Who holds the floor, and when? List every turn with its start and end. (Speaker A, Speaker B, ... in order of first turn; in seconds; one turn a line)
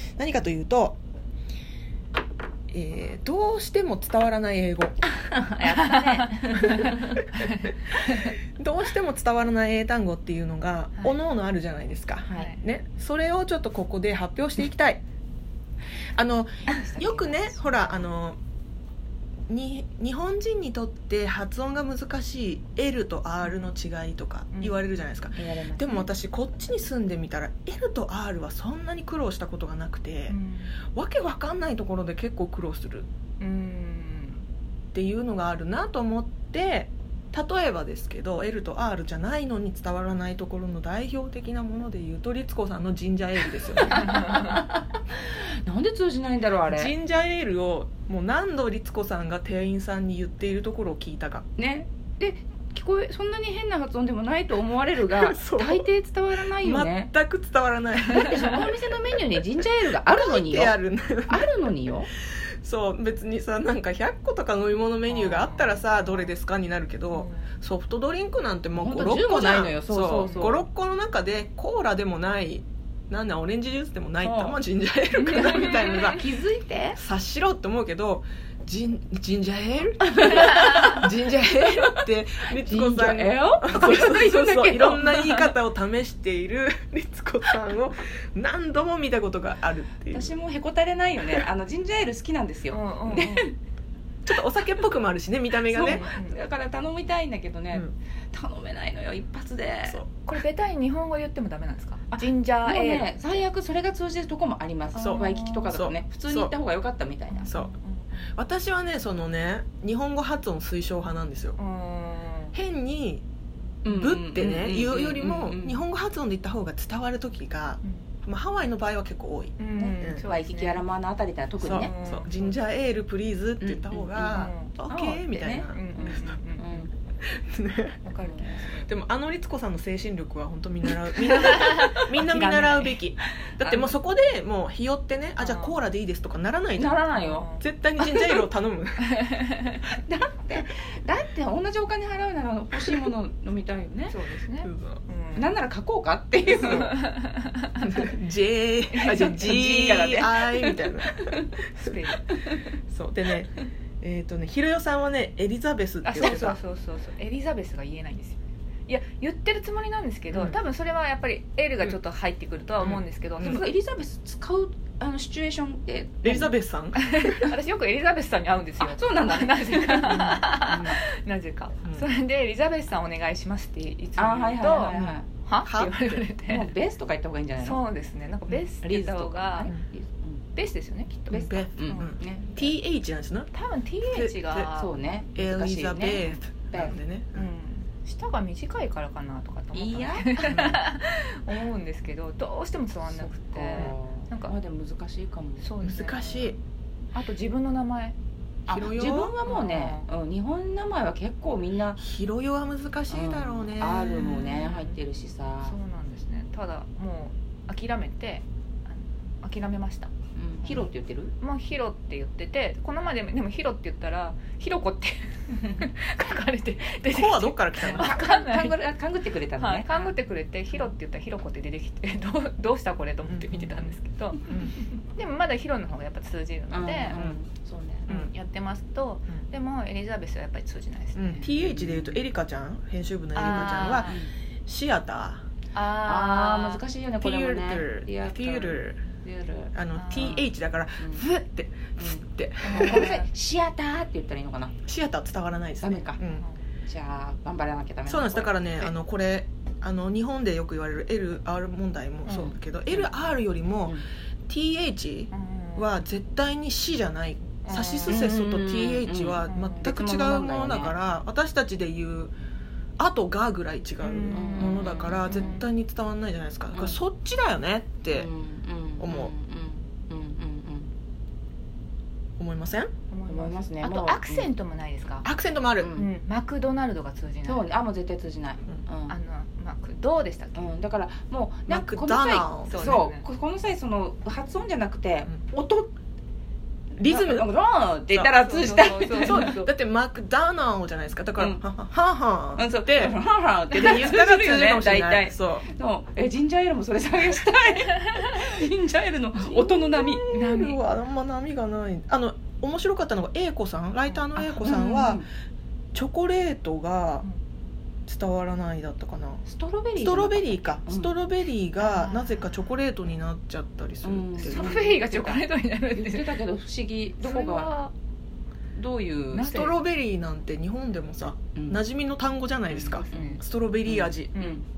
Speaker A: 0.2-1.0
Speaker A: 2.7-5.0
Speaker B: 5.1-7.2
Speaker C: 5.7-8.3
Speaker A: 7.9-15.0
Speaker A: 16.1-18.4
Speaker B: 16.7-17.9
Speaker A: 19.5-30.4
Speaker C: 23.4-23.7
Speaker C: 24.5-24.8
Speaker B: 25.4-26.1
Speaker C: 30.3-30.8
Speaker A: 30.9-33.1
Speaker C: 33.4-34.4
Speaker A: 34.9-44.1
Speaker B: 43.9-46.9
Speaker C: 43.9-44.6
Speaker A: 46.7-51.4
Speaker B: 51.6-57.1
Speaker A: 55.1-55.9
Speaker A: 56.5-58.9
Speaker B: 58.0-62.1
Speaker C: 58.1-58.7
Speaker A: 59.6-61.5
Speaker A: 62.6-76.2
Speaker C: 65.1-66.3
Speaker C: 67.1-67.5
Speaker B: 68.8-70.7
Speaker C: 70.2-70.5
Speaker B: 74.2-74.6
Speaker C: 75.2-76.1
Speaker B: 75.6-77.0
Speaker A: 77.0-90.3
Speaker B: 80.1-82.0
Speaker B: 82.6-85.4
Speaker B: 90.1-93.5
Speaker C: 92.7-93.5
Speaker A: 94.2-96.0
Speaker B: 95.6-100.0
Speaker C: 95.8-96.4
Speaker A: 99.8-100.1
Speaker C: 100.2-103.4
Speaker B: 102.1-107.5
Speaker C: 104.9-105.8
Speaker A: 104.9-106.5
Speaker C: 107.3-108.3
Speaker A: 107.5-107.7
Speaker A: 108.3-111.6
Speaker C: 111.6-112.5
Speaker A: 112.5-113.2
Speaker B: 113.8-115.8
Speaker A: 113.8-120.2
Speaker C: 117.8-118.1
Speaker C: 119.6-120.8
Speaker B: 119.8-121.9
Speaker A: 121.6-126.1
Speaker C: 121.7-122.4
Speaker B: 123.6-126.9
Speaker C: 124.2-124.7
Speaker C: 125.7-126.9
Speaker A: 127.2-128.0
Speaker C: 128.0-128.9
Speaker B: 128.2-128.6
Speaker A: 128.9-137.0
Speaker C: 131.3-133.0
Speaker B: 133.4-133.9
Speaker C: 135.4-135.8
Speaker B: 136.8-137.5
Speaker C: 136.8-138.4
Speaker A: 137.5-139.1
Speaker C: 139.0-140.0
Speaker B: 140.0-144.2
Speaker C: 144.1-145.6
Speaker A: 144.6-145.0
Speaker B: 145.3-146.9
Speaker C: 146.5-148.1
Speaker A: 147.8-152.0
Speaker C: 148.9-149.5
Speaker B: 149.2-151.5
Speaker C: 151.8-152.3
Speaker A: 152.9-156.6
Speaker C: 156.0-163.6
Speaker A: 160.3-160.6
Speaker A: 162.8-163.6
Speaker B: 163.4-166.5
Speaker A: 166.2-167.5
Speaker C: 166.9-176.7
Speaker B: 168.8-170.9
Speaker A: 170.7-171.0
Speaker B: 174.2-175.3
Speaker A: 174.9-176.2
Speaker B: 176.4-177.8
Speaker C: 177.6-179.7
Speaker B: 178.8-180.4
Speaker C: 180.5-182.1
Speaker A: 181.3-183.5
Speaker B: 181.8-182.7
Speaker C: 183.5-184.9
Speaker A: 184.0-184.7
Speaker B: 184.7-187.0
Speaker A: 185.3-187.5
Speaker C: 187.3-194.5
Speaker B: 189.7-190.7
Speaker A: 190.5-190.8
Speaker B: 193.0-195.7
Speaker C: 195.6-196.6
Speaker A: 195.8-196.6
Speaker C: 197.1-198.2
Speaker A: 198.7-199.3
Speaker B: 198.7-202.0
Speaker C: 199.4-200.1
Speaker A: 202.0-204.3
Speaker B: 203.1-205.8
Speaker C: 203.9-205.0
Speaker C: 205.6-210.1
Speaker B: 210.3-211.3
Speaker C: 210.6-210.9
Speaker C: 211.4-218.8
Speaker A: 217.1-218.2
Speaker B: 217.8-220.1
Speaker C: 219.6-227.2
Speaker A: 223.3-223.9
Speaker A: 224.5-224.7
Speaker B: 226.7-228.1
Speaker C: 228.1-231.4
Speaker A: 231.2-235.4
Speaker B: 231.4-232.2
Speaker C: 233.3-234.2
Speaker B: 233.4-234.3
Speaker C: 235.7-236.8
Speaker B: 236.0-240.5
Speaker A: 237.2-239.0
Speaker A: 239.7-243.1
Speaker C: 239.9-240.5
Speaker B: 241.0-241.3
Speaker B: 242.0-244.8
Speaker C: 242.6-243.3
Speaker A: 244.8-246.4
Speaker B: 245.8-246.2
Speaker C: 246.3-246.6
Speaker B: 246.8-248.9
Speaker A: 248.1-262.3
Speaker C: 252.2-252.6
Speaker C: 255.3-255.9
Speaker C: 257.6-258.3
Speaker B: 258.1-260.9
Speaker C: 259.4-259.9
Speaker A: 263.0-268.3
Speaker C: 264.0-265.6
Speaker B: 264.3-265.6
Speaker B: 266.7-267.0
Speaker B: 268.1-270.9
Speaker A: 269.0-269.3
Speaker A: 272.4-272.9
Speaker C: 273.1-275.3
Speaker B: 273.3-274.5
Speaker A: 275.2-275.9
Speaker B: 275.8-276.1
Speaker C: 275.9-277.6
Speaker B: 277.4-279.2
Speaker C: 279.1-280.7
Speaker B: 280.5-285.9
Speaker A: 281.7-283.0
Speaker C: 282.6-283.2
Speaker A: 287.0-287.5
Speaker B: 287.0-289.6
Speaker A: 288.1-288.7
Speaker C: 288.4-289.7
Speaker A: 289.2-295.6
Speaker B: 291.4-291.6
Speaker B: 292.5-300.2
Speaker A: 299.5-305.2
Speaker C: 300.3-300.8
Speaker C: 304.1-305.0
Speaker B: 304.4-305.2
Speaker A: 305.9-307.2
Speaker A: 308.1-309.4
Speaker B: 309.4-311.1
Speaker A: 310.0-314.9
Speaker C: 311.8-312.6
Speaker B: 314.0-317.8
Speaker C: 314.4-316.4
Speaker C: 317.2-317.9
Speaker B: 318.7-319.6
Speaker C: 319.3-319.7
Speaker A: 319.5-324.3
Speaker B: 321.6-321.8
Speaker C: 322.8-323.4
Speaker B: 322.8-324.6
Speaker C: 324.3-324.6